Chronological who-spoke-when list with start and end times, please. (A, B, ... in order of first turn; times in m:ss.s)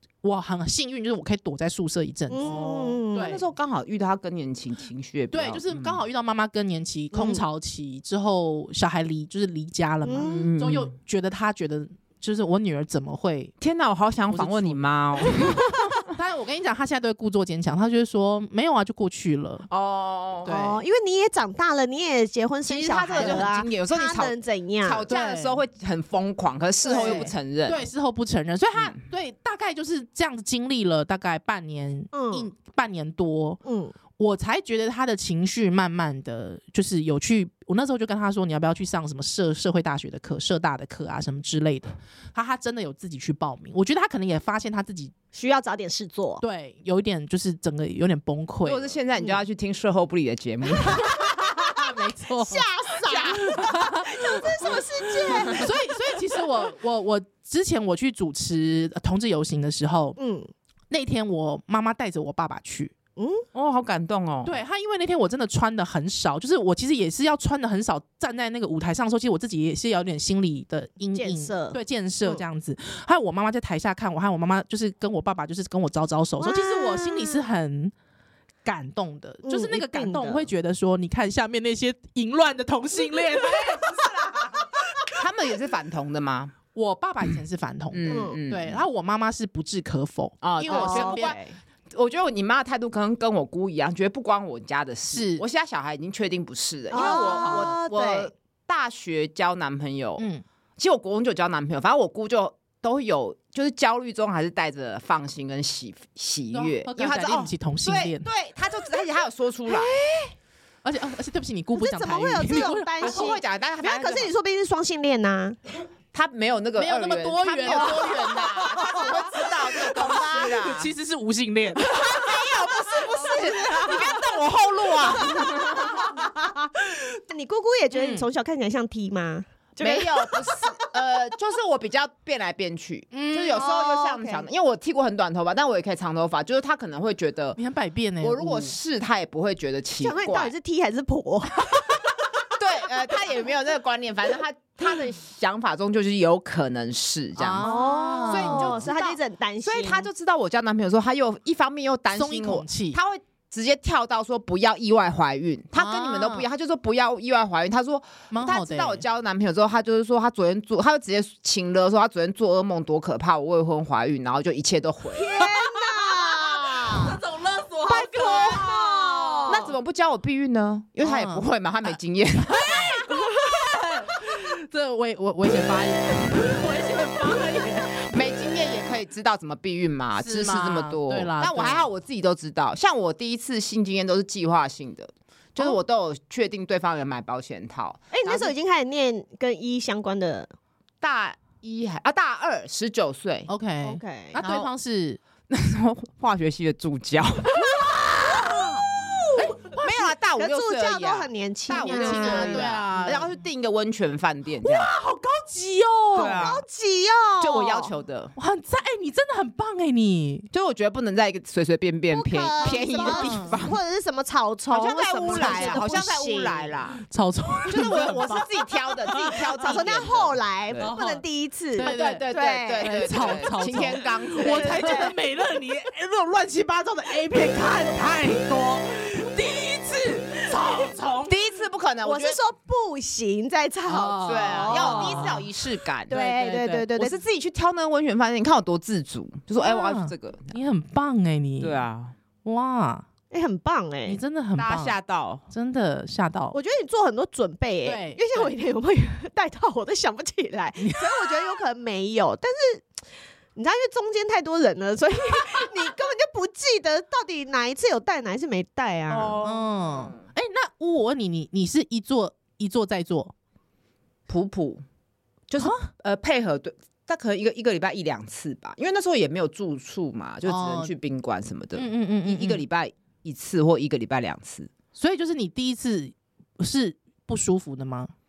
0:00.2-0:03.4 A
0:02.3-0:03.3 B
0:02.4-0:06.0 C
0:05.3-0:13.5 A
0:07.1-0:07.4 B
0:10.0-0:10.5 B
0:10.2-0:10.9 C
0:13.6-0:15.6 C
0:14.3-0:19.7 A
0:19.7-0:20.5 C
0:20.4-0:20.8 A
0:20.4-0:25.1 B
0:22.6-0:27.8 C
0:23.1-0:23.5 A
0:25.1-0:25.6 A
0:26.8-0:27.3 B
0:26.9-0:33.6 A
0:28.8-0:29.0 C
0:32.1-0:32.5 B
0:33.6-0:33.9 B
0:34.2-0:45.1 A
0:45.3-0:46.4 B
0:46.4-0:48.9 A
0:48.6-0:51.1 C
0:50.8-0:55.8 B
0:51.0-0:54.8 A
0:53.1-0:53.4 C
0:54.7-0:55.6 C
0:55.5-1:00.2 A
1:00.2-1:00.5 B
1:00.9-1:02.9 A
1:03.2-1:03.4 B
1:03.5-1:04.6 C
1:04.4-1:17.9 A
1:11.1-1:12.4 B
1:16.4-1:17.4 B
1:18.6-1:24.7 A
1:19.4-1:20.5 B
1:24.0-1:24.4 C
1:25.1-1:26.5 C
1:26.7-1:31.4 A
1:27.9-1:28.8 C
1:28.1-1:28.4 B
1:30.4-1:31.4 C
1:30.7-1:31.6 B
1:31.9-1:40.2 C
1:35.1-1:35.4 A
1:36.9-1:38.3 B
1:36.9-1:37.8 A
1:40.2-1:40.4 A
1:40.8-1:49.9 C
1:46.5-1:48.3 A
1:49.7-1:50.3 B
1:50.8-1:53.3 A
1:51.8-1:55.6 B
1:53.0-1:54.3 C
1:56.1-2:00.9 C
1:56.8-1:59.1 A
1:57.6-1:59.1 B
1:59.8-2:02.4 A
2:01.9-2:06.0 C
2:02.8-2:04.2 B
2:03.3-2:04.0 A
2:05.0-2:10.8 B
2:07.9-2:08.3 A
2:09.8-2:17.6 C
2:13.1-2:13.6 A
2:13.5-2:14.4 B
2:17.6-2:18.8 A
2:18.2-2:20.5 C
2:20.0-2:22.1 B
2:22.6-2:45.4 C
2:27.4-2:28.9 A
2:27.6-2:30.1 B
2:32.1-2:33.0 A
2:35.7-2:36.4 A
2:38.3-2:39.0 A
2:45.1-2:47.2 B
2:45.4-2:49.7 A
2:47.8-2:49.7 B
2:48.3-2:48.6 C
2:49.5-2:52.8 C
2:51.0-2:58.2 A
2:58.1-3:08.5 C
3:00.2-3:01.9 A
3:08.1-3:10.5 B
3:11.0-3:13.5 C
3:13.5-3:15.2 A
3:13.8-3:14.4 B
3:14.4-3:14.7 C
3:15.5-3:17.8 C
3:17.6-3:22.8 B
3:18.4-3:18.8 A
3:19.3-3:19.8 A
3:19.7-3:24.9 C
3:21.7-3:23.3 A
3:24.6-3:26.5 A
3:26.1-3:26.6 C
3:26.1-3:27.9 B
3:27.4-3:28.3 C
3:28.4-3:30.5 A
3:30.5-3:33.8 C
3:32.1-3:36.8 B
3:32.6-3:33.6 A
3:34.7-3:37.0 C
3:35.2-3:35.8 A
3:37.0-3:38.5 A
3:37.7-3:40.9 C
3:39.0-3:39.6 A
3:39.6-3:43.4 B
3:40.8-3:41.2 A
3:41.8-3:45.1 C
3:41.8-3:51.3 A
3:44.3-3:45.1 B
3:51.3-3:52.4 C
3:52.0-3:55.4 B
3:53.9-3:55.5 A
3:54.2-3:56.1 C
3:56.1-3:57.2 B
3:56.1-3:57.1 A
3:57.0-4:00.6 C
3:59.6-4:01.8 A
4:01.6-4:02.1 C
4:02.4-4:03.0 A
4:03.3-4:04.2 B
4:04.0-4:05.0 A
4:04.6-4:05.4 C
4:05.5-4:06.6 A
4:06.5-4:12.9 B
4:07.8-4:08.5 A
4:10.8-4:11.3 A
4:13.6-4:19.4 B
4:19.1-4:20.2 C
4:19.4-4:23.3 A
4:24.3-4:24.8 C
4:25.5-4:34.7 C
4:25.6-4:25.9 A
4:30.4-4:30.9 A
4:31.8-4:32.6 A
4:35.0-4:38.1 A